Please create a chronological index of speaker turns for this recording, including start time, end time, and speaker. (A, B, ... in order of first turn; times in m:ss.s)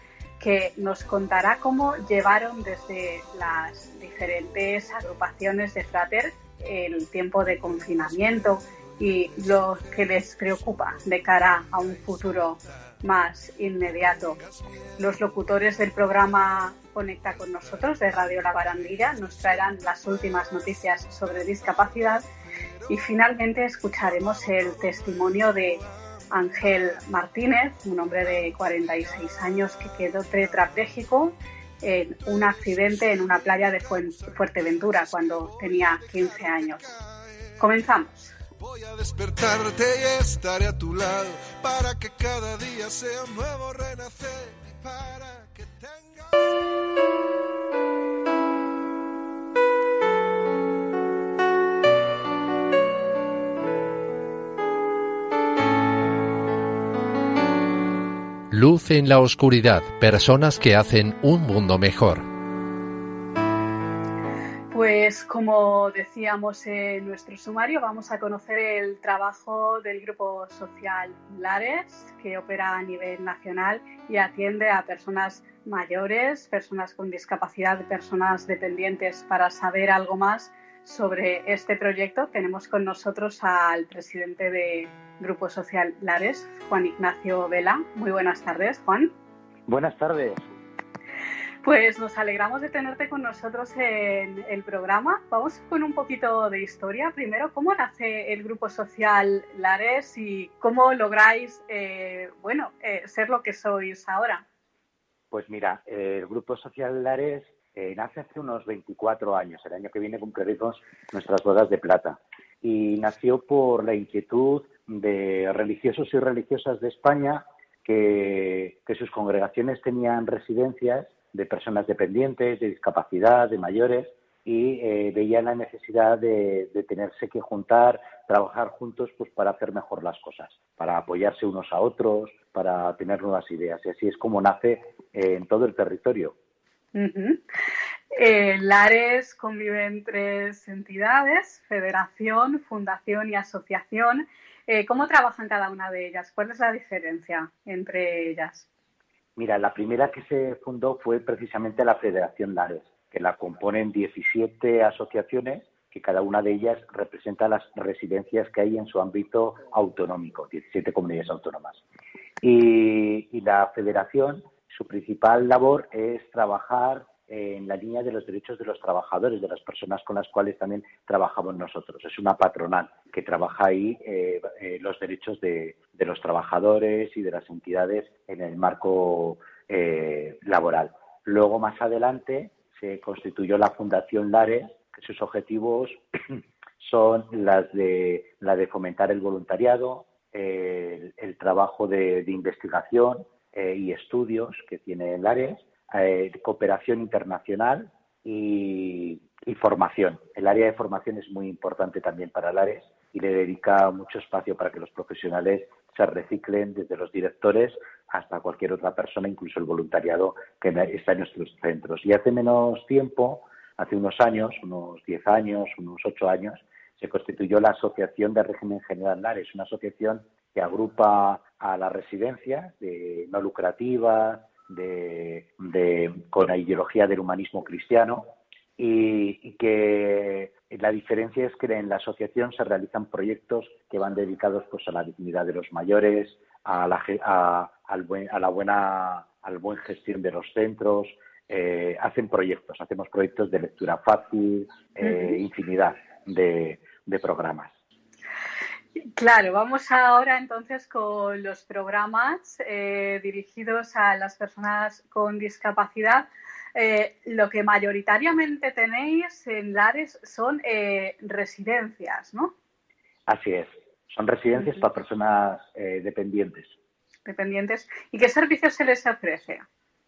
0:00.4-0:14.4 A
0:07.4-0:13.1 B
0:13.8-0:23.2 B
0:15.0-0:22.2 A
0:22.9-0:36.8 A
0:23.8-0:27.1 B
0:28.1-0:31.1 B
0:32.1-0:37.9 B
0:37.6-0:38.3 A
0:38.6-0:46.5 B
0:58.5-1:02.3 C
1:04.7-1:29.1 A
1:29.7-1:30.5 D
1:31.6-1:44.4 A
1:45.3-2:16.4 D
2:17.0-2:17.4 A
2:18.1-2:28.6 A
2:29.4-2:41.8 D
2:42.4-3:06.0 D
3:06.8-4:07.7 D
4:05.0-4:05.4 A
4:09.0-4:22.5 A
4:23.3-4:26.8 D
4:27.3-4:29.7 A